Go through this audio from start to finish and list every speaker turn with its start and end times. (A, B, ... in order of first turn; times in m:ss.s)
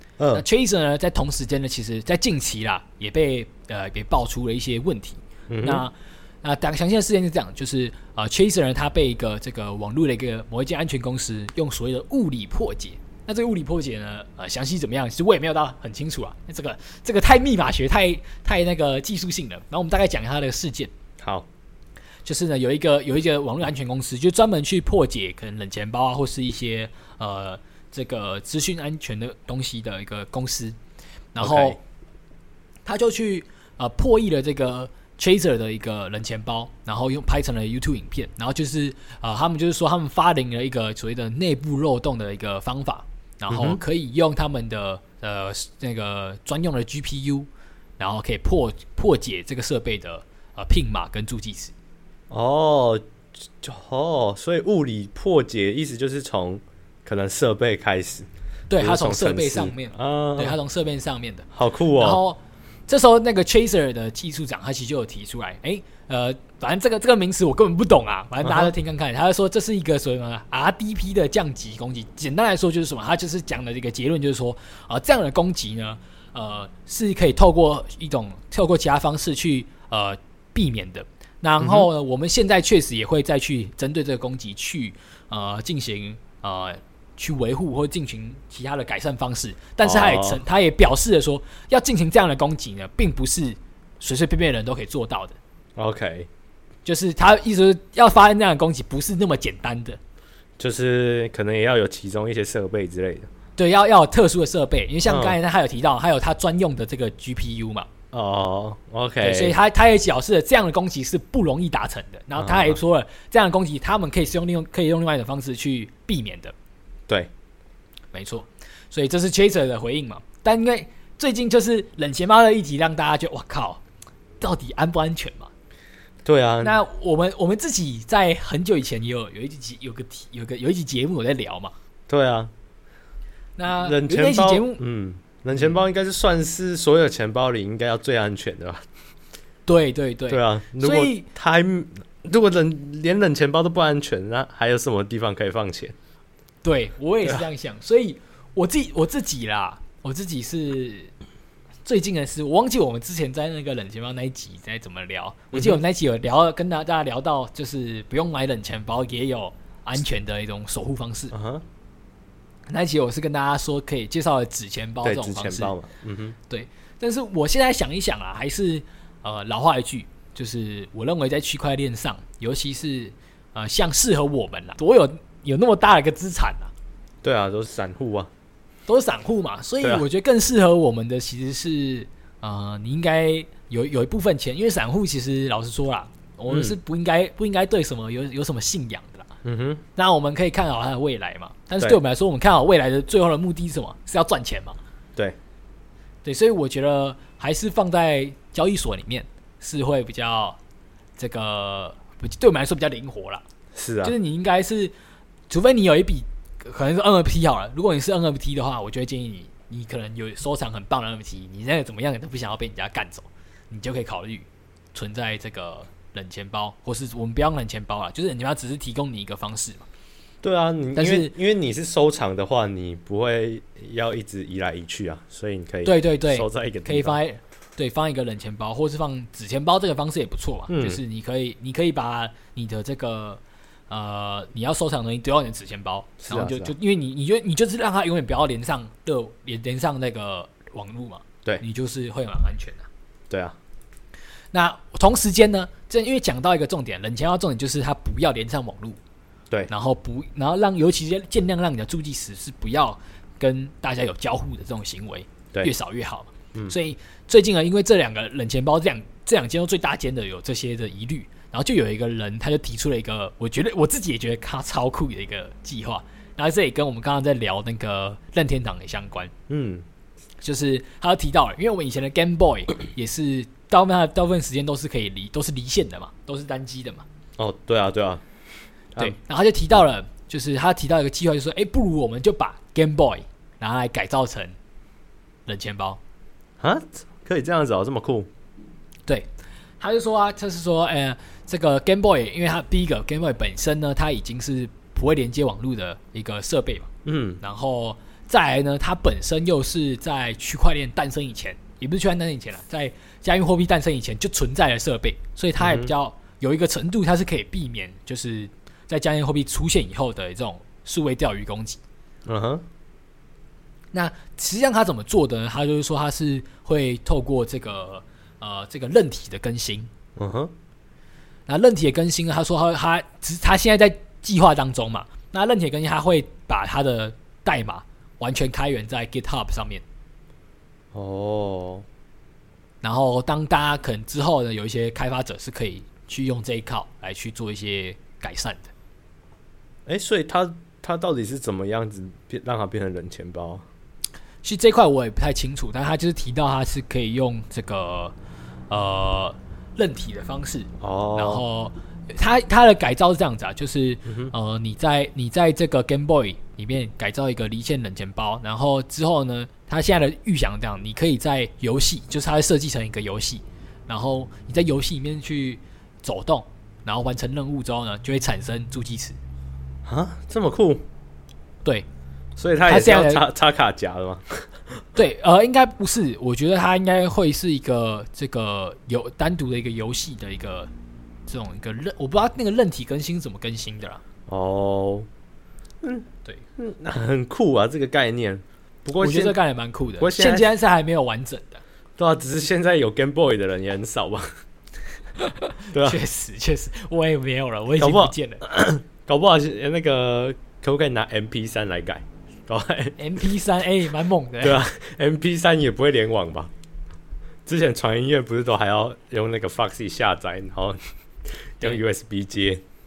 0:00.2-0:00.4 A
0:00.3-0:20.9 B
0:05.5-0:05.8 A
0:21.2-0:21.5 A
0:22.2-0:30.8 B
0:31.3-0:31.8 B
0:31.4-0:31.8 A
0:32.8-0:47.5 B
0:43.5-0:43.8 A
0:48.0-0:51.7 B
0:52.3-0:53.0 A
0:53.6-1:00.6 A
0:58.7-1:35.4 B
1:01.5-1:02.2 A
1:08.4-1:08.7 A
1:21.6-1:21.9 A
1:29.8-1:30.4 A
1:35.8-1:36.3 A
1:36.8-1:40.0 B
1:40.6-1:43.3 A
1:43.6-1:47.9 B
1:45.0-1:45.4 A
1:48.1-1:49.6 A
1:49.2-1:56.5 B
1:52.4-1:52.8 A
1:58.1-2:03.8 B
2:04.4-2:05.5 B
2:06.2-2:06.8 A
2:06.6-2:11.7 B
2:12.1-2:12.5 A
2:13.6-2:14.8 B
2:13.8-2:18.8 A
2:19.6-2:21.2 B
2:20.3-2:25.9 A
2:26.6-2:31.1 B
2:31.8-2:41.3 B
2:35.5-2:35.8 A
2:41.3-2:41.6 A
2:42.7-2:45.7 B
2:45.0-2:46.4 A
2:46.5-2:56.7 B
2:57.2-2:58.3 A
2:58.9-3:09.3 B
3:06.5-3:06.8 A
3:09.4-3:09.8 A
3:10.0-3:14.8 B
3:16.2-3:20.6 B
3:21.2-3:23.4 B
3:23.7-3:24.1 A
3:24.0-3:24.9 B
3:25.5-3:39.8 B
3:40.4-3:47.2 A
3:41.0-3:41.3 B
3:45.8-4:02.9 B
3:50.7-3:51.0 A
3:56.2-3:56.7 A
4:03.3-4:03.6 A
4:04.5-4:09.0 B
4:09.7-4:29.3 B
4:29.5-4:29.8 A
4:30.4-4:37.0 B
4:37.4-4:38.2 A
4:39.0-4:44.6 B
4:45.5-4:46.0 B
4:46.6-4:48.3 A
4:49.8-4:56.9 B
4:57.0-4:57.4 A
4:57.4-5:11.8 B
5:05.6-5:05.9 A
5:12.2-5:12.6 A
5:13.9-5:19.9 B
5:20.2-5:20.5 A
5:21.5-5:29.8 B
5:30.9-5:31.8 A
5:32.8-5:38.7 B
5:39.8-5:43.6 A
5:44.4-5:48.1 B
5:48.7-6:09.2 B
5:50.8-5:51.4 A
5:54.1-5:54.3 A
6:09.8-6:10.8 A
6:12.4-6:14.5 A
6:12.6-6:13.2 B
6:14.9-6:20.7 B
6:21.3-6:24.0 B
6:24.3-6:25.1 A
6:25.8-6:29.4 A
6:29.0-6:31.6 B
6:30.0-6:30.4 A
6:32.0-6:34.3 A
6:35.2-6:38.4 B
6:35.7-6:36.0 A
6:37.8-6:43.0 A
6:43.0-6:44.6 B
6:44.4-6:46.5 A
6:47.4-6:52.6 A